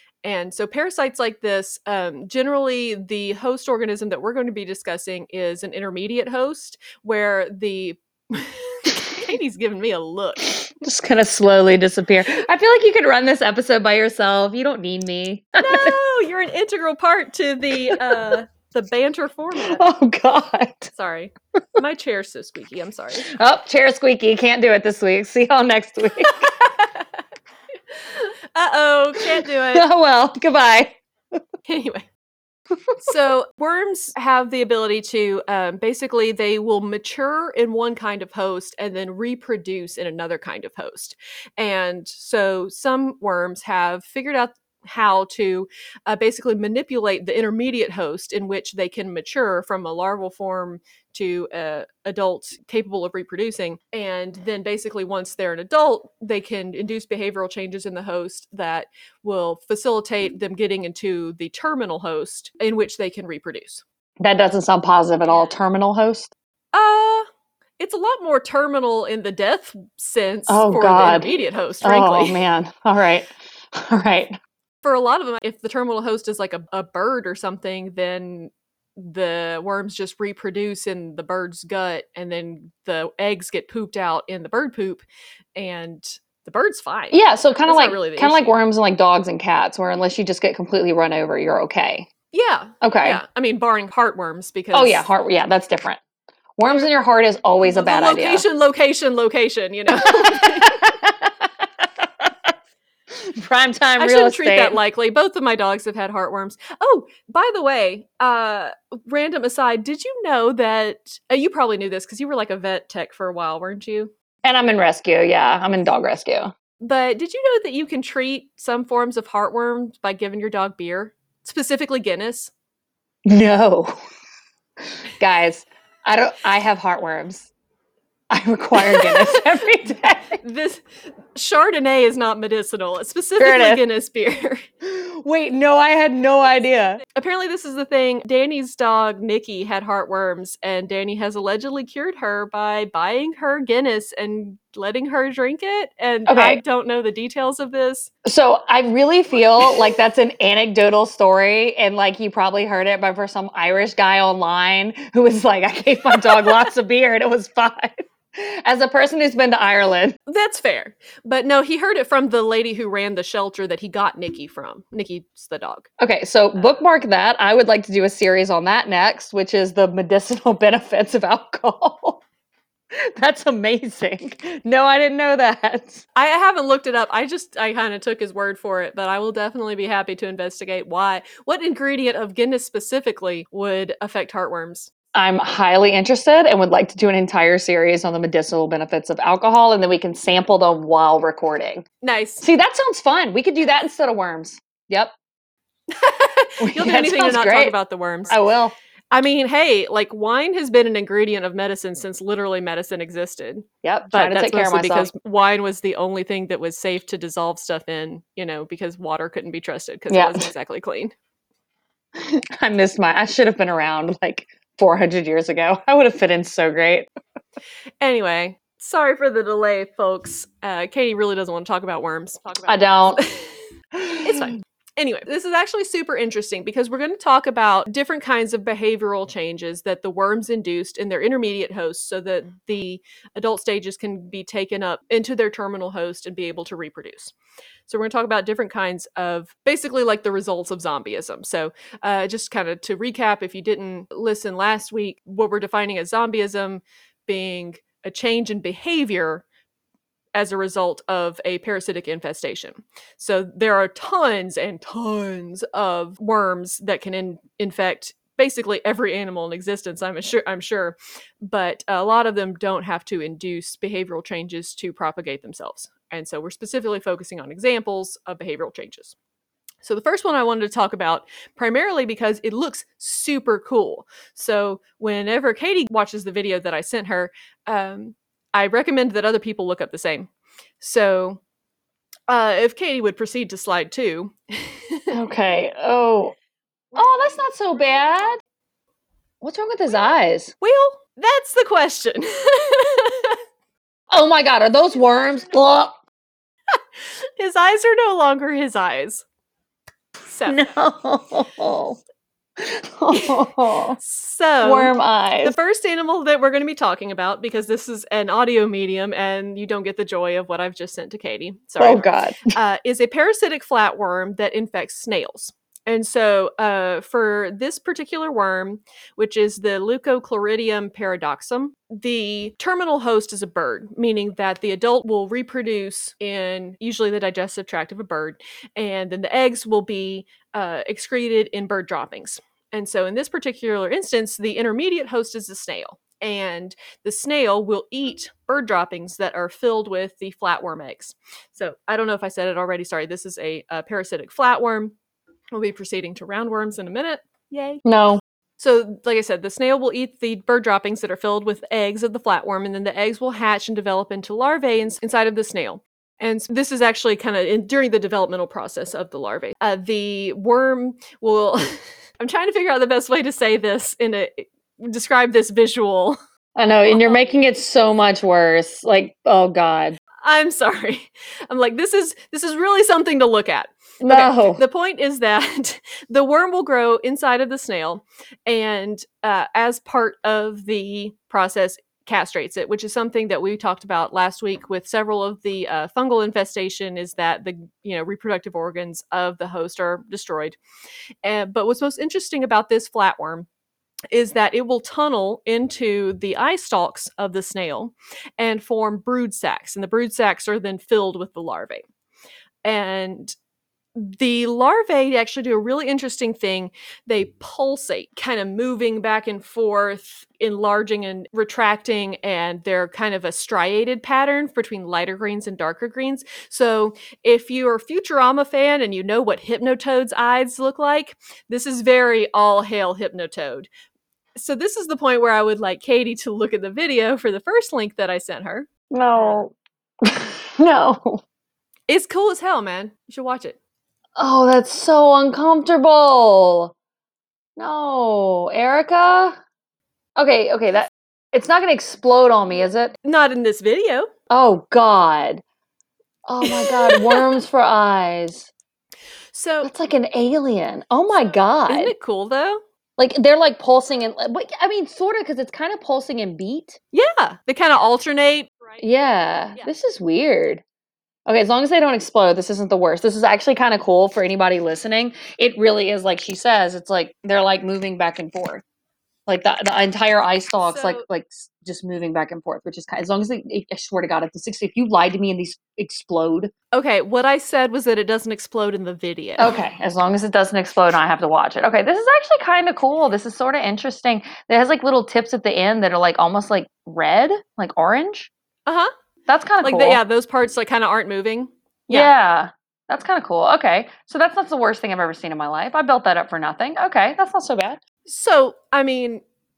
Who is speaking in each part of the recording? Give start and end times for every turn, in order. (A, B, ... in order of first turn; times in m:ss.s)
0:00.2-0:10.5 A
0:10.5-0:16.0 B
0:15.6-0:19.8 A
0:17.7-0:18.4 B
0:19.6-0:20.9 B
0:20.9-0:23.3 A
0:23.3-0:26.4 B
0:26.2-0:27.1 A
0:27.9-0:29.8 A
0:29.2-0:31.0 B
0:31.6-0:32.1 A
0:33.0-1:03.8 A
1:04.2-1:06.3 B
1:05.2-1:05.6 A
1:06.7-1:07.3 A
1:07.8-1:12.4 A
1:10.5-1:14.3 B
1:14.8-1:28.5 A
1:27.1-1:32.1 B
1:32.3-1:35.1 A
1:32.8-1:33.2 B
1:34.7-1:36.0 B
1:36.6-1:38.4 B
1:37.6-1:40.8 A
1:39.9-1:42.3 B
1:43.1-1:44.8 B
1:44.0-1:54.1 A
1:54.4-1:56.5 B
1:56.8-2:02.5 A
2:03.3-2:03.9 B
2:05.2-2:07.5 B
2:08.3-2:10.4 B
2:08.8-2:09.6 A
2:10.3-2:14.6 A
2:13.4-2:13.8 B
2:14.8-2:17.0 B
2:17.0-2:28.1 A
2:26.3-2:26.6 B
2:28.2-2:40.2 B
2:36.1-2:36.6 A
2:40.3-2:45.9 A
2:46.0-2:52.2 B
2:53.0-2:56.0 B
2:56.2-3:04.9 A
3:05.1-3:11.9 B
3:12.0-3:12.4 A
3:12.4-3:15.1 B
3:15.9-3:18.4 A
3:16.6-3:17.8 B
3:18.3-3:18.7 B
3:19.1-3:31.1 A
3:23.8-3:25.1 B
3:30.1-3:30.5 B
3:32.2-3:37.1 B
3:38.0-3:43.5 A
3:42.7-3:43.2 B
3:44.0-3:44.5 B
3:44.2-3:57.3 A
3:57.9-4:09.4 A
4:10.4-4:29.2 A
4:29.8-4:41.4 A
4:42.3-4:45.1 A
4:45.1-4:46.4 B
4:47.0-4:48.4 B
4:49.4-4:50.5 B
4:50.6-4:53.4 A
4:54.1-4:56.0 B
4:57.4-4:59.2 A
5:00.3-5:00.7 A
5:00.5-5:02.0 B
5:02.6-5:04.0 B
5:03.1-5:03.4 A
5:04.0-5:44.9 A
5:04.6-5:05.6 B
5:11.8-5:12.4 B
5:45.5-5:47.8 A
5:47.8-5:48.2 B
5:48.6-6:06.2 A
6:06.6-6:10.0 B
6:06.9-6:07.3 A
6:10.2-6:30.6 A
6:14.0-6:14.6 B
6:31.2-6:33.5 A
6:34.1-6:41.8 A
6:42.6-6:43.3 A
6:44.0-7:03.7 A
7:04.4-7:09.4 A
7:08.9-7:11.2 B
7:11.9-7:13.6 A
7:14.2-7:16.7 B
7:17.6-7:19.4 B
7:20.2-7:22.9 B
7:23.0-7:24.1 A
7:24.3-7:25.4 B
7:26.3-7:28.5 B
7:26.4-7:27.3 A
7:29.3-7:29.7 A
7:29.6-7:31.9 B
7:31.7-7:32.6 A
7:33.0-7:36.8 B
7:36.9-7:38.8 A
7:38.8-7:40.6 B
7:41.3-7:48.6 B
7:49.3-7:56.5 B
7:50.6-7:51.0 A
7:56.7-7:59.6 A
7:59.4-8:08.3 B
8:09.3-8:10.0 B
8:09.6-8:12.1 A
8:11.9-8:17.8 B
8:18.1-8:19.2 A